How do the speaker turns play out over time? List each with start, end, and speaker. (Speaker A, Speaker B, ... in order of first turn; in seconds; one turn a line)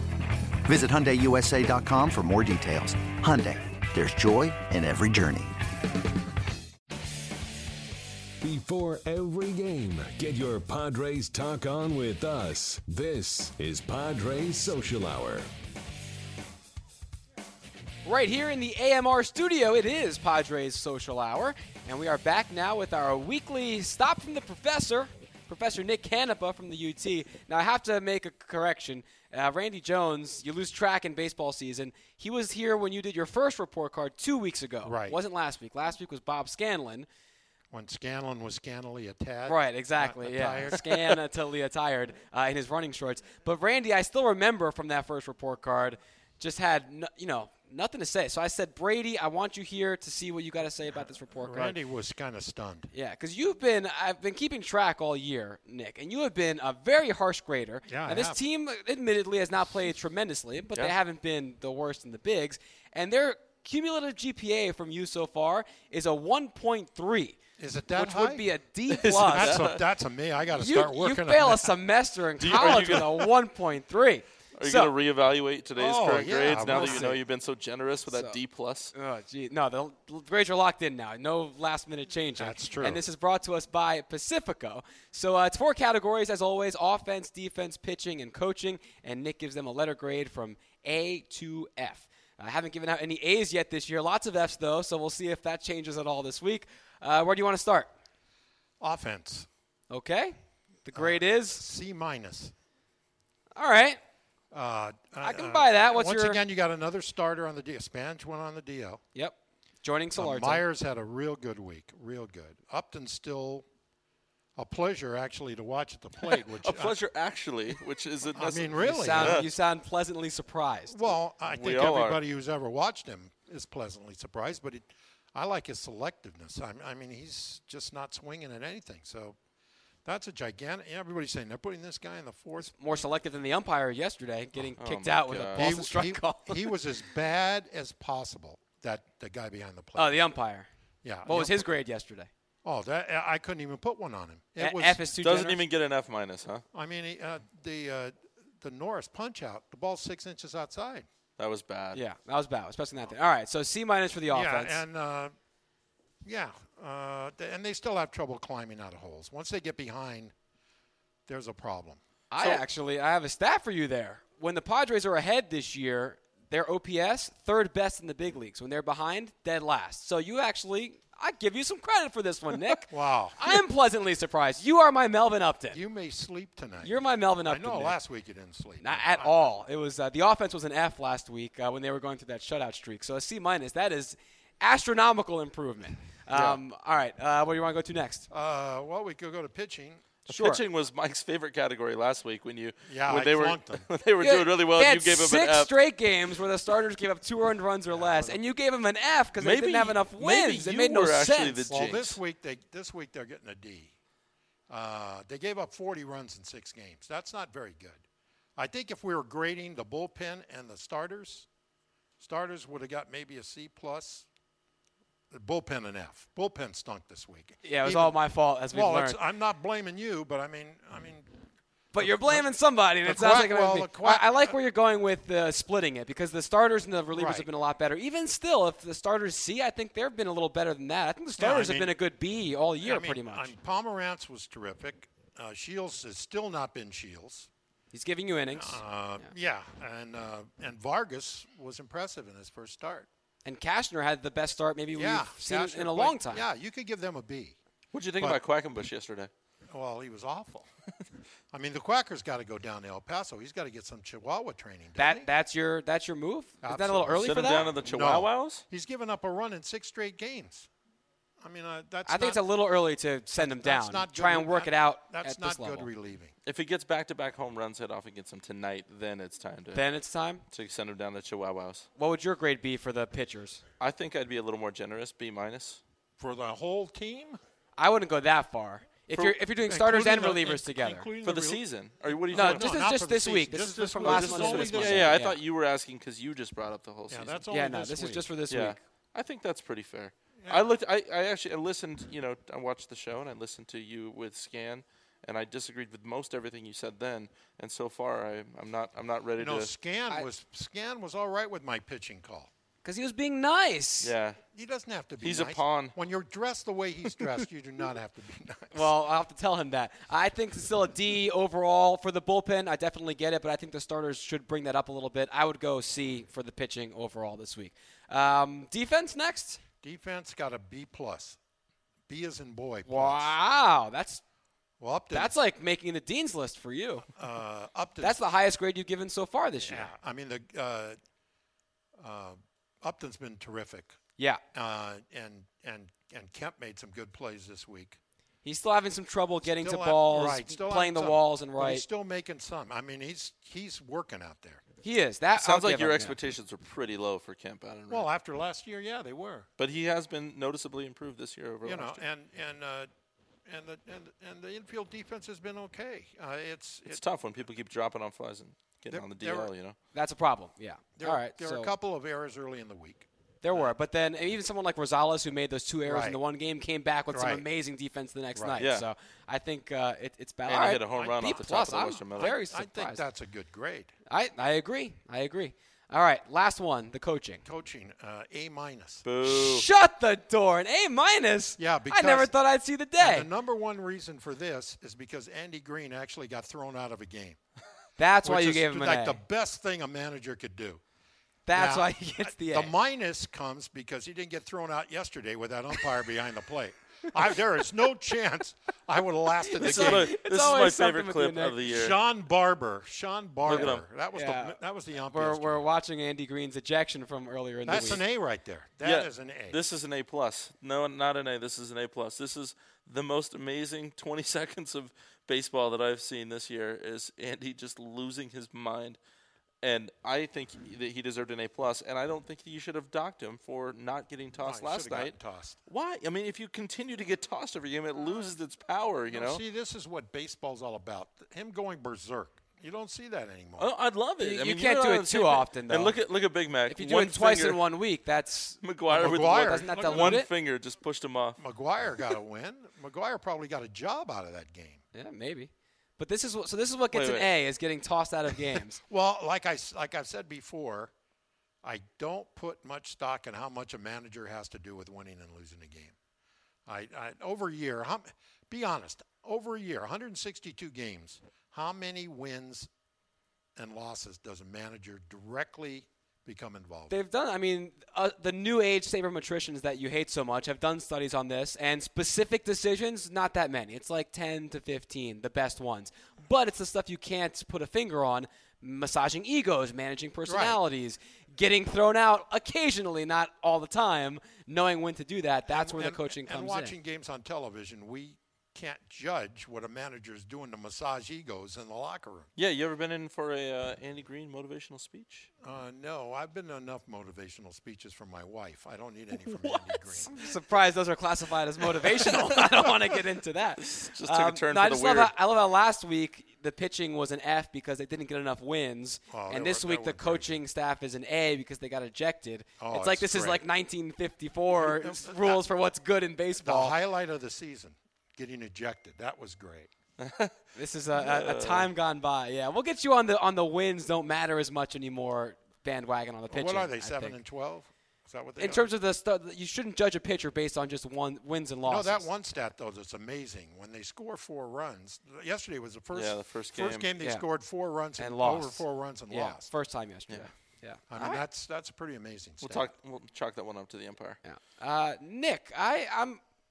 Speaker A: 0.6-5.6
Speaker B: 8.4-15.5
Speaker C: 18.1-37.1
Speaker D: 34.8-35.2
Speaker D: 37.7-40.9
Speaker C: 39.5-51.8
Speaker D: 51.4-52.9
Speaker C: 52.9-67.4
Speaker D: 57.9-58.4
Speaker D: 67.6-68.5
Speaker C: 67.9-69.7
Speaker E: 68.9-69.8
Speaker D: 69.1-71.7
Speaker C: 70.5-74.9
Speaker E: 72.4-73.3
Speaker E: 74.6-78.9
Speaker D: 75.8-77.1
Speaker C: 76.5-77.2
Speaker C: 78.1-78.4
Speaker C: 78.9-97.9
Speaker D: 82.4-83.0
Speaker D: 98.8-99.5
Speaker C: 99.9-101.6
Speaker D: 100.9-102.5
Speaker C: 103.5-104.0
Speaker D: 104.5-109.0
Speaker C: 105.2-106.4
Speaker C: 109.2-110.6
Speaker D: 110.2-113.7
Speaker D: 114.6-117.0
Speaker E: 116.2-119.5
Speaker D: 118.3-119.5
Speaker C: 118.8-121.1
Speaker D: 120.9-129.4
Speaker E: 121.5-122.2
Speaker D: 130.1-132.7
Speaker C: 132.6-136.8
Speaker E: 134.8-135.8
Speaker D: 135.5-140.3
Speaker C: 140.0-140.7
Speaker D: 141.0-141.7
Speaker C: 141.2-142.3
Speaker D: 142.6-145.0
Speaker C: 144.6-145.6
Speaker E: 145.2-146.6
Speaker D: 146.7-151.1
Speaker E: 151.4-152.0
Speaker C: 151.9-154.8
Speaker D: 154.3-155.3
Speaker D: 156.2-160.3
Speaker D: 161.3-162.6
Speaker C: 162.3-175.8
Speaker D: 172.9-173.6
Speaker D: 175.7-179.5
Speaker C: 176.8-178.0
Speaker C: 178.8-188.3
Speaker E: 186.3-186.6
Speaker D: 188.3-190.1
Speaker C: 190.3-190.6
Speaker E: 190.3-195.7
Speaker D: 192.9-193.9
Speaker C: 194.2-201.7
Speaker D: 197.9-198.4
Speaker E: 199.4-202.2
Speaker D: 201.7-203.9
Speaker D: 204.7-208.0
Speaker D: 208.6-211.5
Speaker D: 212.2-214.3
Speaker D: 215.3-218.2
Speaker C: 217.6-219.2
Speaker D: 218.7-221.3
Speaker C: 221.9-233.5
Speaker D: 221.9-224.6
Speaker D: 227.1-227.5
Speaker D: 231.4-231.9
Speaker D: 232.8-237.5
Speaker C: 237.9-238.8
Speaker D: 238.5-243.1
Speaker C: 243.4-246.5
Speaker D: 244.9-247.6
Speaker E: 247.9-249.3
Speaker D: 249.7-250.7
Speaker D: 251.5-255.3
Speaker C: 255.0-257.7
Speaker D: 256.6-260.7
Speaker E: 257.2-258.6
Speaker D: 261.4-262.4
Speaker C: 262.1-265.9
Speaker D: 263.4-266.3
Speaker E: 266.4-269.8
Speaker C: 269.7-270.4
Speaker E: 270.5-271.9
Speaker C: 272.0-273.6
Speaker E: 273.8-275.8
Speaker D: 276.2-277.4
Speaker C: 277.8-281.1
Speaker D: 279.1-285.2
Speaker E: 281.2-282.7
Speaker C: 282.3-285.4
Speaker E: 284.0-287.4
Speaker D: 287.1-288.3
Speaker C: 287.5-288.8
Speaker E: 288.5-299.7
Speaker D: 290.4-290.7
Speaker D: 299.4-302.5
Speaker C: 302.8-304.1
Speaker E: 304.0-304.4
Speaker D: 304.5-308.9
Speaker E: 305.2-305.9
Speaker C: 308.7-319.6
Speaker D: 319.8-321.4
Speaker D: 322.1-323.4
Speaker C: 322.9-324.2
Speaker D: 324.8-325.4
Speaker C: 325.1-327.1
Speaker D: 327.1-328.2
Speaker C: 328.0-329.9
Speaker D: 329.6-331.0
Speaker D: 332.0-334.0
Speaker D: 334.5-338.0
Speaker C: 338.4-341.9
Speaker D: 339.4-344.6
Speaker C: 344.8-346.2
Speaker E: 345.4-348.1
Speaker D: 347.9-349.5
Speaker E: 349.6-352.0
Speaker D: 351.6-352.9
Speaker D: 353.5-357.0
Speaker E: 356.9-359.8
Speaker D: 358.9-359.5
Speaker C: 359.9-361.7
Speaker D: 361.0-363.7
Speaker C: 363.4-373.0
Speaker D: 365.9-366.2
Speaker D: 367.1-367.5
Speaker D: 368.4-368.6
Speaker E: 368.6-368.9
Speaker E: 370.5-372.4
Speaker D: 370.9-371.5
Speaker D: 372.1-373.9
Speaker C: 374.1-377.4
Speaker D: 377.4-379.0
Speaker E: 379.0-379.6
Speaker C: 379.2-383.3
Speaker D: 381.6-382.3
Speaker D: 383.0-387.4
Speaker C: 388.0-389.2
Speaker D: 388.2-390.8
Speaker C: 391.5-392.7
Speaker D: 391.5-400.1
Speaker C: 399.4-401.6
Speaker E: 399.6-402.0
Speaker D: 401.7-405.7
Speaker C: 403.5-408.0
Speaker E: 403.5-403.8
Speaker D: 407.7-409.6
Speaker E: 408.8-419.0
Speaker E: 419.6-425.2
Speaker D: 424.4-425.6
Speaker E: 425.7-429.4
Speaker D: 429.1-433.7
Speaker E: 433.6-437.6
Speaker C: 434.2-436.0
Speaker C: 436.7-438.6
Speaker E: 438.6-441.4
Speaker D: 438.9-440.2
Speaker C: 439.2-440.3
Speaker D: 441.4-444.8
Speaker C: 444.9-448.8
Speaker E: 446.9-447.3
Speaker D: 448.9-450.9
Speaker D: 451.6-455.9
Speaker D: 456.7-462.7
Speaker D: 463.6-467.0
Speaker C: 466.9-486.8
Speaker D: 480.3-480.6
Speaker D: 485.5-492.3
Speaker E: 492.4-495.3
Speaker D: 495.4-500.1
Speaker C: 500.1-516.8
Speaker E: 503.6-505.1
Speaker D: 509.1-510.4
Speaker D: 512.6-513.4
Speaker D: 514.5-515.4
Speaker D: 516.4-519.7
Speaker E: 520.0-520.3
Speaker C: 520.6-527.2
Speaker E: 520.9-521.7
Speaker D: 526.3-528.7
Speaker C: 528.4-532.1
Speaker D: 531.6-539.5
Speaker E: 535.9-536.9
Speaker C: 537.0-537.3
Speaker C: 538.0-540.8
Speaker D: 540.9-542.7
Speaker E: 541.0-541.2
Speaker E: 542.4-544.2
Speaker C: 544.2-546.2